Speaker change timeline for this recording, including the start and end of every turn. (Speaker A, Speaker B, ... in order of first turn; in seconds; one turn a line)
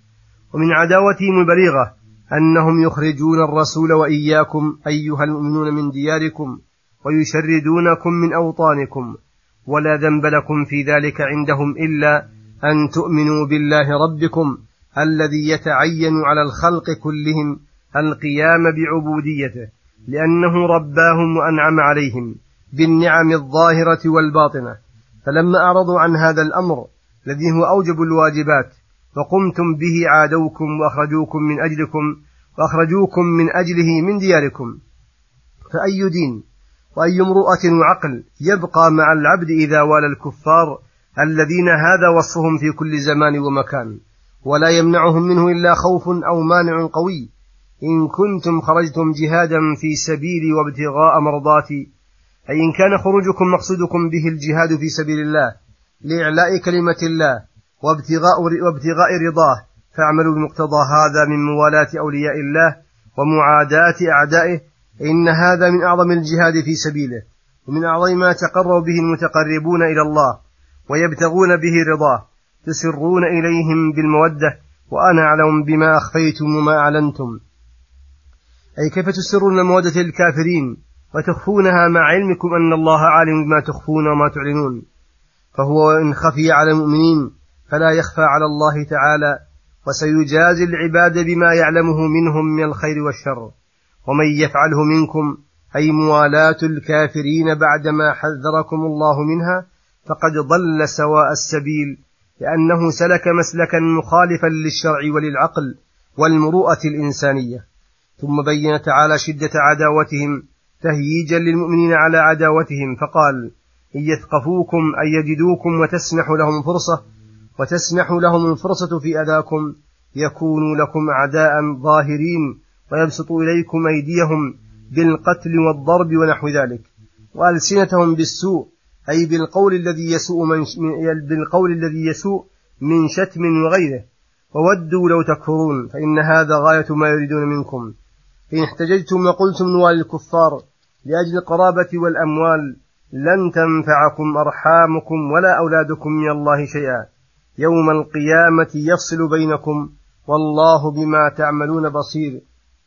Speaker A: 0.5-9.1
Speaker A: 9.7-34.8
Speaker A: 35.7-36.4
Speaker A: 36.9-47.3
Speaker A: 47.8-51.9
Speaker A: 52.5-77.4
Speaker A: 78.8-84.8
Speaker A: 85.5-93.5
Speaker A: 94.0-107.6
Speaker A: 108.2-117.0
Speaker A: 117.6-137.9
Speaker A: 138.5-152.4